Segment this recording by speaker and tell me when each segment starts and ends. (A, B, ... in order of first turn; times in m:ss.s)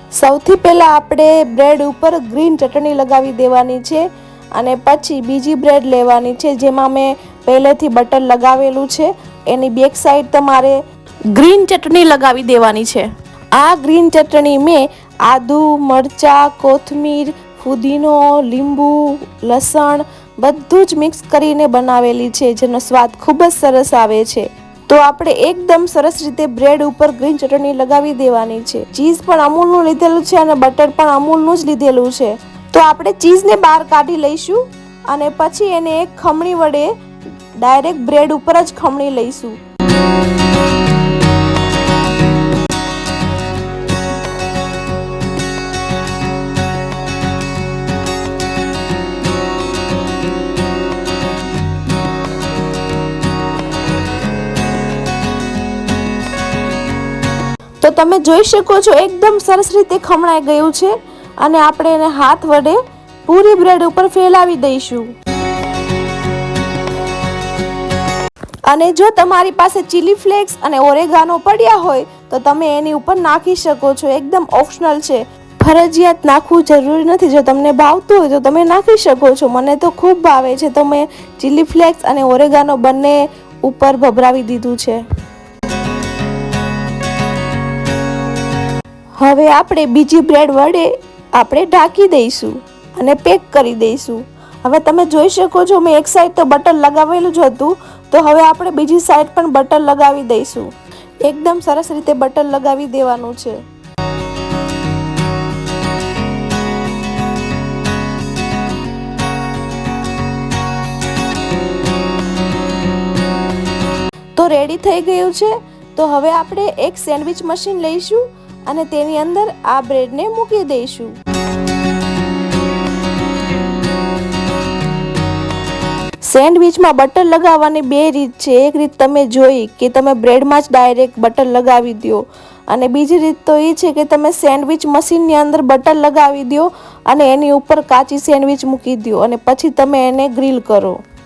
0:00.2-0:04.0 A
0:04.5-0:10.8 A
0:11.3-0:36.9 A
0:37.6-0:39.6 A
0:57.8-1:05.1 A
1:08.7-1:25.0 A
1:29.2-1:40.7 A
1:41.2-1:43.6 A
1:54.4-2:01.1 A
2:06.3-2:21.0 A